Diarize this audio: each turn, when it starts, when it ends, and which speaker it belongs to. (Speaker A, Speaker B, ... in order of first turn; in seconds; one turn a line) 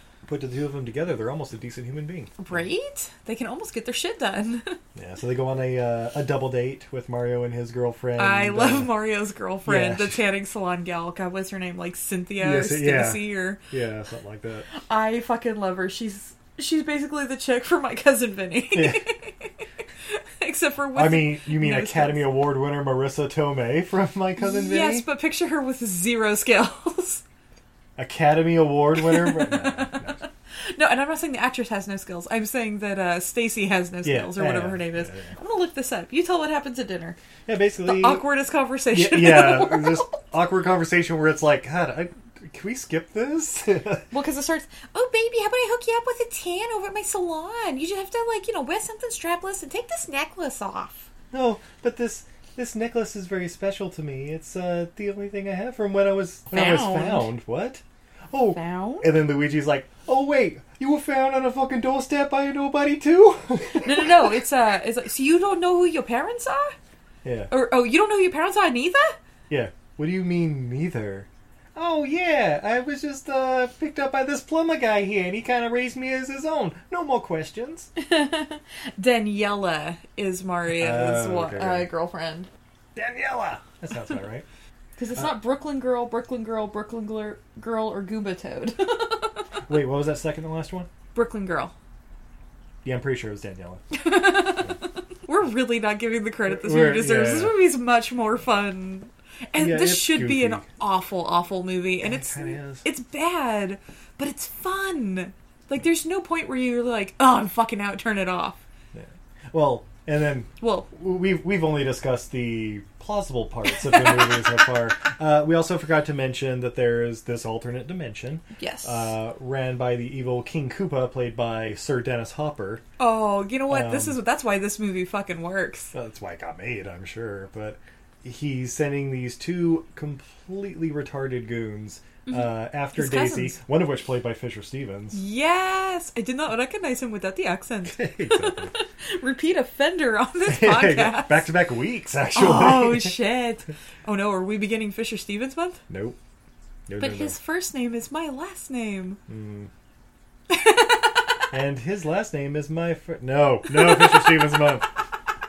Speaker A: 0.2-2.6
Speaker B: 2.4-4.8
Speaker A: 4.9-8.9
Speaker B: 8.2-13.6
Speaker A: 9.7-10.2
Speaker A: 12.4-14.7
Speaker B: 14.7-19.5
Speaker A: 18.7-19.1
Speaker B: 20.1-22.3
Speaker A: 20.9-25.1
Speaker B: 24.4-27.2
Speaker A: 28.0-30.2
Speaker B: 29.0-37.2
Speaker A: 34.0-35.3
Speaker A: 37.5-38.2
Speaker B: 37.8-40.2
Speaker A: 38.9-44.1
Speaker B: 44.1-51.1
Speaker A: 51.3-64.3
Speaker B: 56.5-57.3
Speaker B: 58.5-59.2
Speaker B: 63.8-66.7
Speaker A: 67.2-67.5
Speaker B: 67.5-69.2
Speaker A: 69.5-77.9
Speaker B: 78.0-82.5
Speaker A: 80.7-81.9
Speaker A: 82.9-84.4
Speaker B: 85.0-89.5
Speaker A: 89.7-90.9
Speaker B: 91.1-91.7
Speaker A: 92.8-93.8
Speaker B: 93.9-108.6
Speaker A: 96.5-97.6
Speaker A: 99.5-100.7
Speaker A: 102.0-102.8
Speaker A: 108.9-122.8
Speaker B: 110.6-110.9
Speaker B: 118.6-119.1
Speaker B: 123.0-125.9
Speaker A: 123.7-124.2
Speaker A: 125.9-135.2
Speaker B: 132.2-133.6
Speaker B: 135.1-141.5
Speaker A: 137.8-138.7
Speaker A: 140.4-143.2
Speaker B: 142.3-145.8
Speaker A: 145.9-146.2
Speaker A: 146.9-147.4
Speaker B: 147.0-149.2
Speaker A: 149.3-149.7
Speaker B: 150.5-151.4
Speaker A: 151.5-154.9
Speaker B: 153.7-154.6